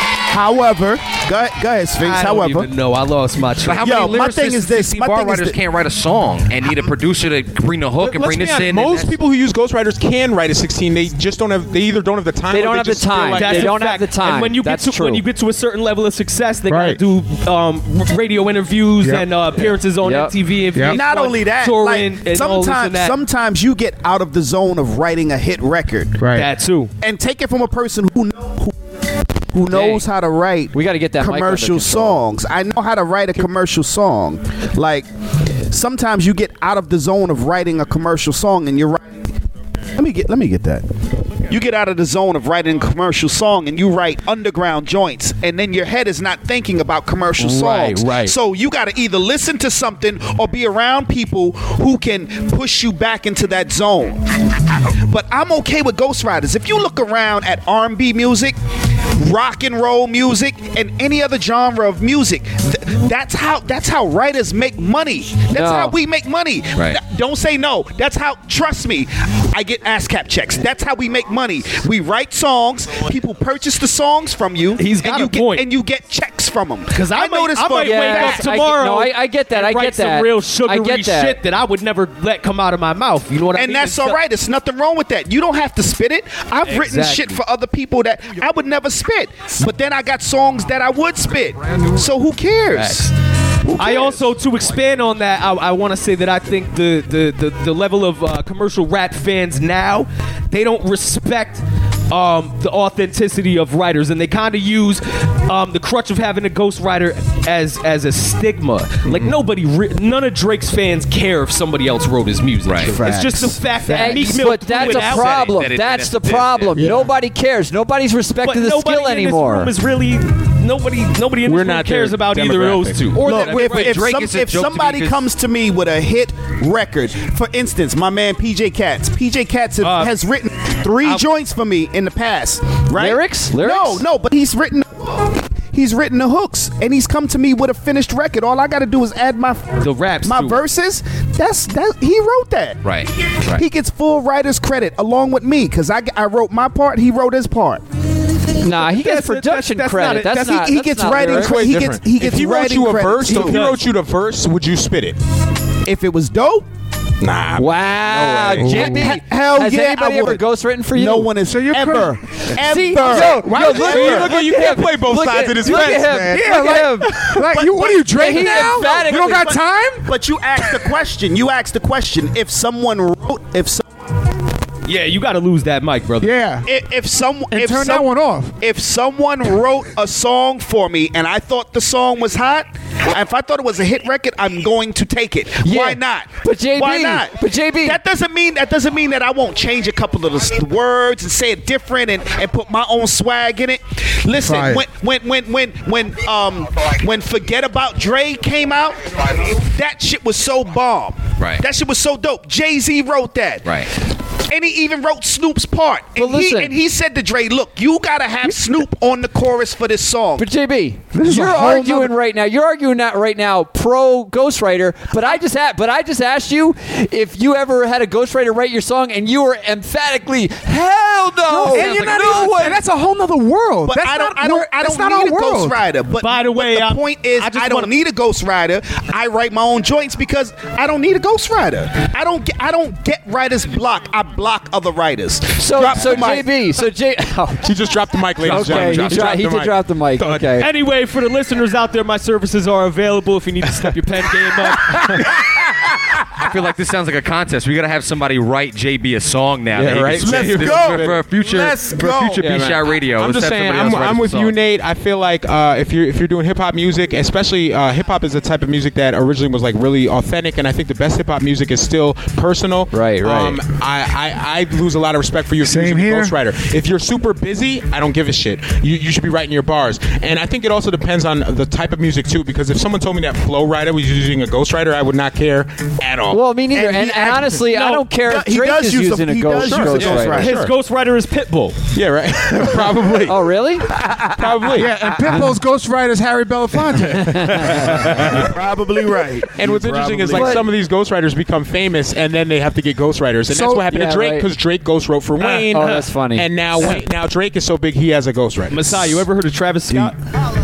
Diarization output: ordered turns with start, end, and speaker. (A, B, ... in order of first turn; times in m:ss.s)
0:00.2-0:02.7 A
0:02.0-0:04.1 B
0:03.6-0:09.2 C
0:03.8-0:05.6 A
0:08.0-0:13.8 D
0:12.5-0:15.2 E
0:13.3-0:23.2 B
0:16.7-0:17.0 F
0:19.0-0:19.3 F
0:20.0-0:20.3 E
0:20.7-0:21.0 F
0:20.9-0:26.2 A
0:26.2-0:26.5 F
0:26.3-0:26.9 B
0:27.0-0:28.8 A
0:29.5-0:35.1 A
0:29.7-0:30.0 E
0:30.7-0:32.2 E
0:35.7-0:39.2 A
0:39.9-0:40.9 A
0:41.4-0:54.2 A
0:47.4-0:48.3 B
0:54.8-0:58.6 A
0:59.1-1:18.4 A
1:05.5-1:05.9 E
1:14.8-1:15.7 B
1:16.9-1:24.2 B
1:17.8-1:21.4 E
1:23.5-1:33.1 A
1:26.7-1:27.4 B
1:32.7-1:33.1 B
1:33.7-1:34.2 A
1:33.7-1:55.6 B
1:49.0-1:49.3 D
1:52.6-1:53.0 C
1:52.9-1:54.6 A
1:53.9-1:59.7 E
1:54.6-1:56.9 C
1:56.8-1:57.1 F
1:58.4-2:03.9 B
2:01.4-2:03.1 D
2:03.1-2:05.2 C
2:03.2-2:22.8 A
2:09.8-2:10.1 B
2:12.9-2:14.0 E
2:19.8-2:20.6 B
2:22.8-2:23.6 C
2:23.5-2:27.8 A
2:28.6-2:31.8 E
2:28.6-2:30.7 B
2:30.5-2:33.6 A
2:31.3-2:35.2 D
2:33.3-2:33.8 B
2:35.8-2:36.7 A
2:37.2-2:38.9 D
2:37.6-2:41.3 E
2:38.6-2:39.0 F
2:38.8-2:44.3 A
2:41.4-2:42.2 F
2:42.6-2:47.1 E
2:43.0-2:44.2 F
2:43.0-2:46.6 D
2:45.7-2:50.1 F
2:47.3-2:53.8 A
2:48.1-2:49.5 E
2:54.9-2:56.3 B
2:56.2-2:56.7 F
2:56.6-3:23.8 A
2:57.5-2:58.6 F
3:05.6-3:08.0 E
3:14.3-3:14.8 F
3:24.5-3:30.4 A
3:26.2-3:26.7 E
3:30.4-3:42.8 E
3:31.1-3:32.1 F
3:41.5-3:45.8 F
3:41.7-3:42.8 C
3:43.8-3:56.5 A
3:46.2-3:47.9 B
3:55.6-3:57.6 E
3:57.6-4:00.6 D
3:58.4-4:00.7 E
4:00.6-4:05.4 B
4:06.3-4:14.6 C
4:09.8-4:36.4 D
4:10.2-4:11.2 A
4:11.8-4:12.5 A
4:22.9-4:23.6 E
4:25.6-4:26.4 F
4:36.3-4:40.5 E
4:36.7-4:40.6 A
4:39.5-4:40.8 D
4:40.2-4:41.8 B
4:41.9-4:43.4 D
4:43.3-4:44.0 E
4:44.3-4:45.0 D
4:44.7-4:47.7 F
4:47.1-4:48.1 E
4:47.5-4:48.5 D
4:47.9-4:50.6 A
4:49.5-4:59.2 D
4:50.3-4:50.6 E
4:53.5-4:53.8 F
4:53.7-4:54.5 E
4:55.4-4:56.0 B
4:55.7-4:56.5 E
4:58.7-5:00.2 B